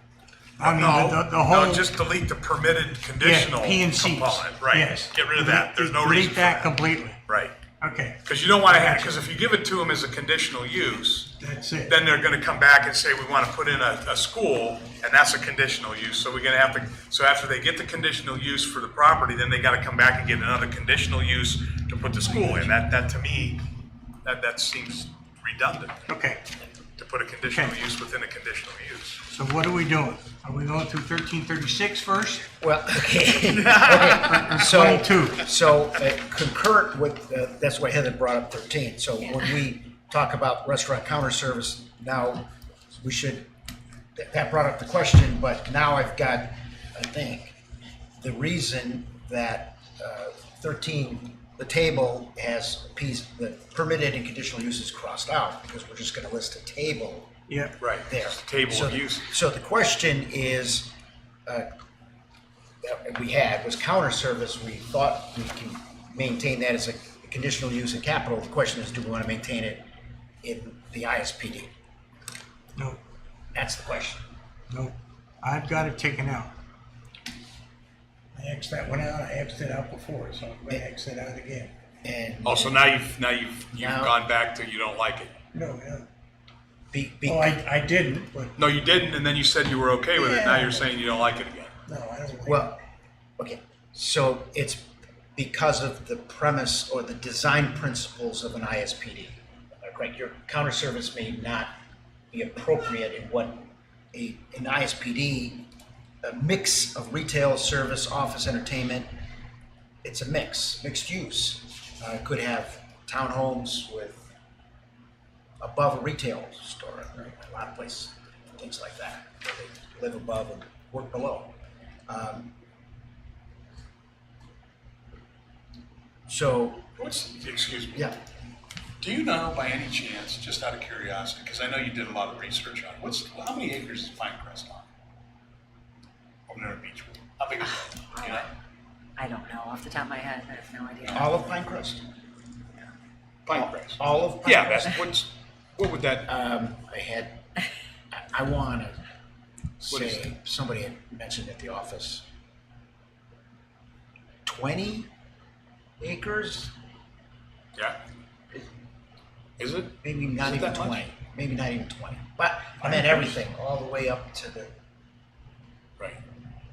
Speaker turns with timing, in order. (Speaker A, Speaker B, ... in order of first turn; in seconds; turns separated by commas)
Speaker A: 0.6-1.9, Speaker B: 0.6-7.6, Speaker A: 3.2-7.2, Speaker A: 7.8-9.2, Speaker B: 8.2-11.3, Speaker A: 11.3-12.0, Speaker B: 11.9-23.6, Speaker B: 24.2-26.0, Speaker A: 26.1-26.4, Speaker B: 27.0-29.2, Speaker A: 27.5-27.8, Speaker A: 29.3-32.5, Speaker C: 32.6-42.5, Speaker B: 33.4-34.7, Speaker A: 34.1-35.5, Speaker C: 43.0-43.5, Speaker C: 44.1-47.6, Speaker C: 48.2-57.3, Speaker A: 57.5-57.7, Speaker B: 57.8-59.3, Speaker C: 58.0-60.9, Speaker C: 62.8-69.9, Speaker C: 70.4-71.7, Speaker C: 73.5-74.2, Speaker A: 74.7-76.5, Speaker A: 78.3-81.7, Speaker C: 82.0-82.9, Speaker B: 82.5-85.3, Speaker C: 83.7-84.2, Speaker A: 85.5-86.1, Speaker C: 86.9-87.6, Speaker A: 87.2-88.6, Speaker B: 88.6-91.7, Speaker A: 90.2-90.9, Speaker A: 91.9-92.7, Speaker C: 92.5-92.8, Speaker C: 93.4-101.7, Speaker C: 102.3-105.7, Speaker C: 106.2-109.1, Speaker C: 110.0-114.3, Speaker C: 115.6-121.6, Speaker C: 122.1-122.5, Speaker C: 126.3-126.9, Speaker B: 127.0-128.1, Speaker B: 129.0-134.9, Speaker B: 136.5-138.5, Speaker D: 137.6-138.5, Speaker D: 139.2-141.4, Speaker C: 141.1-142.0, Speaker B: 143.5-146.3, Speaker C: 143.5-145.0, Speaker C: 146.3-147.4, Speaker C: 148.1-149.0, Speaker C: 149.8-152.2, Speaker B: 149.9-150.3, Speaker C: 154.4-155.1, Speaker C: 156.0-156.7, Speaker B: 159.6-161.0, Speaker C: 160.0-164.7, Speaker A: 162.8-163.4